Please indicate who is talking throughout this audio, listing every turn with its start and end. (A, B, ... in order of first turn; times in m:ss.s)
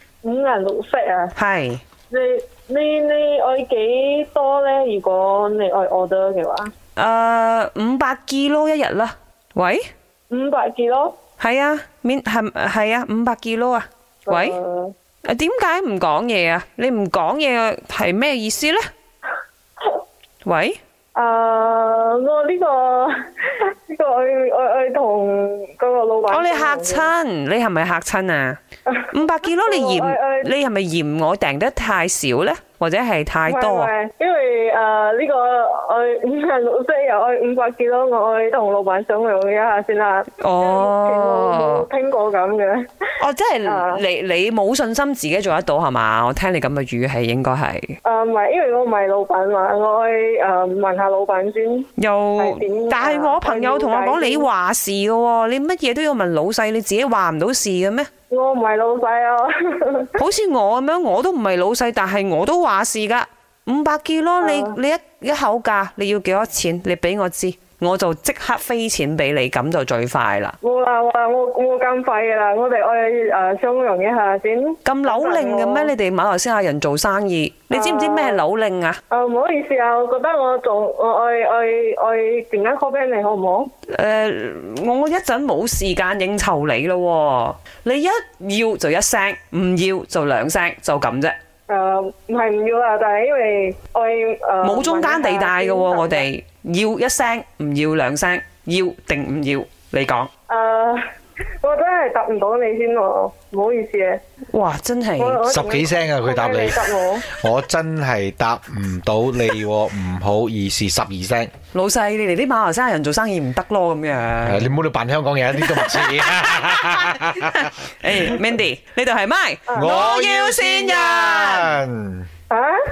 0:00.2-0:01.3 A
0:01.4-0:01.8 B
0:02.1-0:06.7 A
0:07.0-0:09.8 B
0:10.3-0:11.2 A
0:11.4-0:14.6 B
0:14.3-0:14.9 A
0:15.2-0:18.8 B
0:20.4-0:20.8 B
0:21.1-0:27.1 A
0:26.3-0:28.6 B
0:28.9-0:30.5 A
0:29.1-0:33.9 B
0:33.5-0:42.9 A
0:40.4-0:41.8 B
0:43.2-0:48.0 B
0:43.6-0:44.0 A
0:48.0-0:54.5 A
0:52.0-0:58.1 B
0:58.3-1:00.2 A
1:00.2-1:10.6 B
1:04.4-1:04.8 A
1:10.6-1:15.9 A
1:14.8-1:19.0 B
1:17.7-1:18.4 A
1:19.1-1:23.7 A
1:23.9-1:31.4 B
1:31.7-1:36.3 A
1:34.6-1:40.3 B
1:40.5-1:41.0 A
1:41.6-1:44.2 A
1:44.5-1:45.4 B
1:45.2-1:47.4 A
1:45.4-1:51.5 C
1:51.7-1:54.7 B
1:54.4-1:58.4 C
1:55.6-2:01.8 B
1:59.7-2:00.0 A
1:59.8-2:02.3 C
2:02.5-2:02.8 A